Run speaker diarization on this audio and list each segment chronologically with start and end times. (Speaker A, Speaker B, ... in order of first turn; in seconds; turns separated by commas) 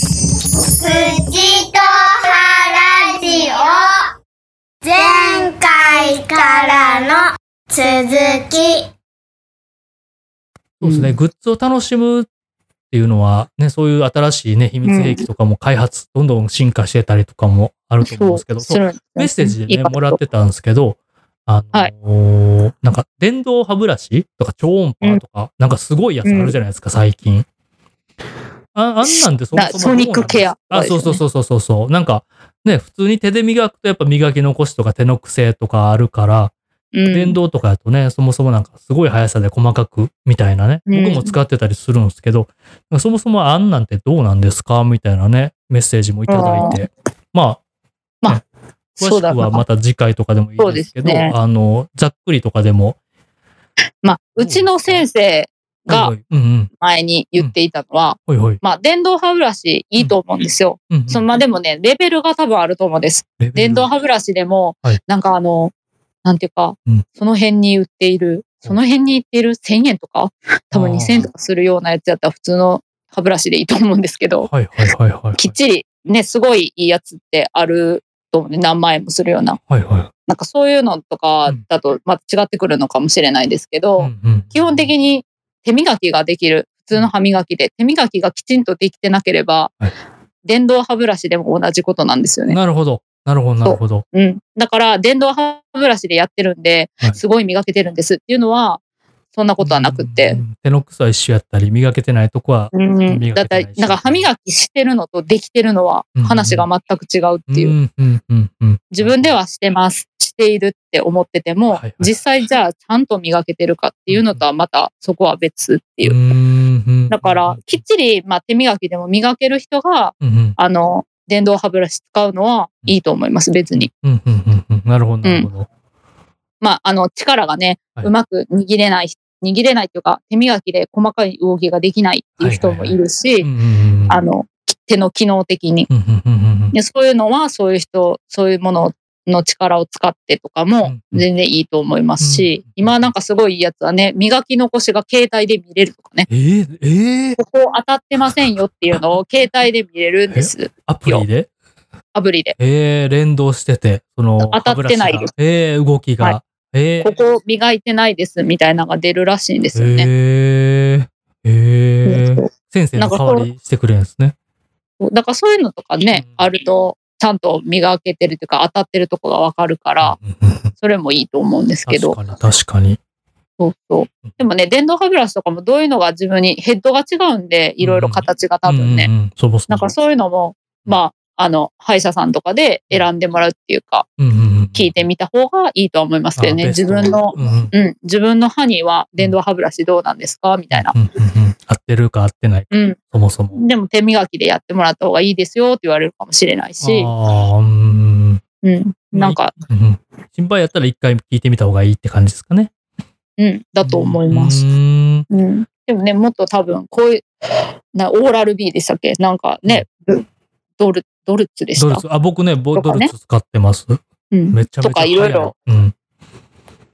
Speaker A: 0.6-3.8, Speaker A: 4.8-8.8, Speaker B: 10.8-11.2, Speaker C: 10.8-12.3, Speaker C: 12.9-27.4, Speaker B: 14.8-15.2, Speaker B: 18.0-20.2, Speaker B: 26.2-26.6, Speaker C: 28.7-36.5, Speaker B: 29.0-31.2, Speaker B: 36.9-37.4, Speaker C: 37.1-47.6, Speaker B: 40.9-41.4, Speaker B: 46.3-46.9, Speaker B: 49.0-49.6, Speaker C: 49.0-53.0, Speaker B: 50.6-51.3, Speaker B: 54.0-56.1, Speaker C: 54.4-55.0, Speaker C: 55.9-56.7, Speaker B: 56.8-65.7, Speaker C: 58.3-58.6, Speaker C: 60.9-61.2, Speaker C: 63.4-63.9, Speaker B: 66.2-74.5, Speaker C: 70.7-71.3, Speaker C: 74.5-75.5, Speaker B: 75.3-79.6, Speaker C: 79.7-80.1, Speaker B: 80.3-89.7, Speaker C: 84.0-84.9, Speaker B: 90.4-92.6, Speaker C: 92.5-94.0, Speaker B: 93.6-98.8, Speaker B: 99.3-100.4, Speaker C: 99.6-104.2, Speaker B: 102.7-107.7, Speaker C: 106.2-106.7, Speaker C: 107.5-109.3, Speaker B: 108.9-116.2, Speaker C: 111.7-112.1, Speaker C: 114.1-114.4, Speaker C: 116.0-117.8, Speaker B: 117.1-123.9, Speaker C: 120.2-120.5, Speaker C: 123.7-125.7, Speaker B: 125.2-125.5, Speaker B: 126.6-133.5, Speaker C: 132.4-134.2, Speaker B: 134.1-135.9, Speaker C: 135.9-136.7, Speaker B: 136.7-146.3, Speaker C: 140.8-141.2, Speaker C: 142.2-142.9, Speaker C: 146.3-147.4, Speaker B: 147.4-151.2, Speaker C: 148.2-149.0, Speaker C: 150.3-151.5, Speaker B: 152.1-152.6, Speaker C: 152.6-157.1, Speaker B: 154.4-155.3, Speaker B: 157.0-160.1, Speaker C: 159.7-164.3, Speaker B: 162.1-163.5, Speaker B: 165.0-170.2, Speaker C: 166.1-166.5, Speaker C: 170.0-170.7, Speaker B: 170.8-172.2, Speaker C: 171.9-173.0, Speaker B: 173.6-179.1, Speaker C: 177.8-179.9, Speaker B: 179.7-184.1, Speaker C: 184.2-185.0, Speaker B: 184.7-190.9, Speaker C: 186.4-187.7, Speaker C: 190.7-193.6, Speaker B: 192.7-193.0, Speaker B: 193.5-197.1, Speaker C: 196.8-198.4, Speaker B: 198.6-199.5, Speaker C: 199.1-202.7, Speaker B: 203.4-204.7, Speaker C: 203.8-205.2, Speaker B: 205.3-207.2, Speaker B: 207.9-210.2, Speaker B: 210.8-212.0, Speaker C: 211.8-215.9, Speaker B: 212.7-213.1, Speaker B: 214.3-215.5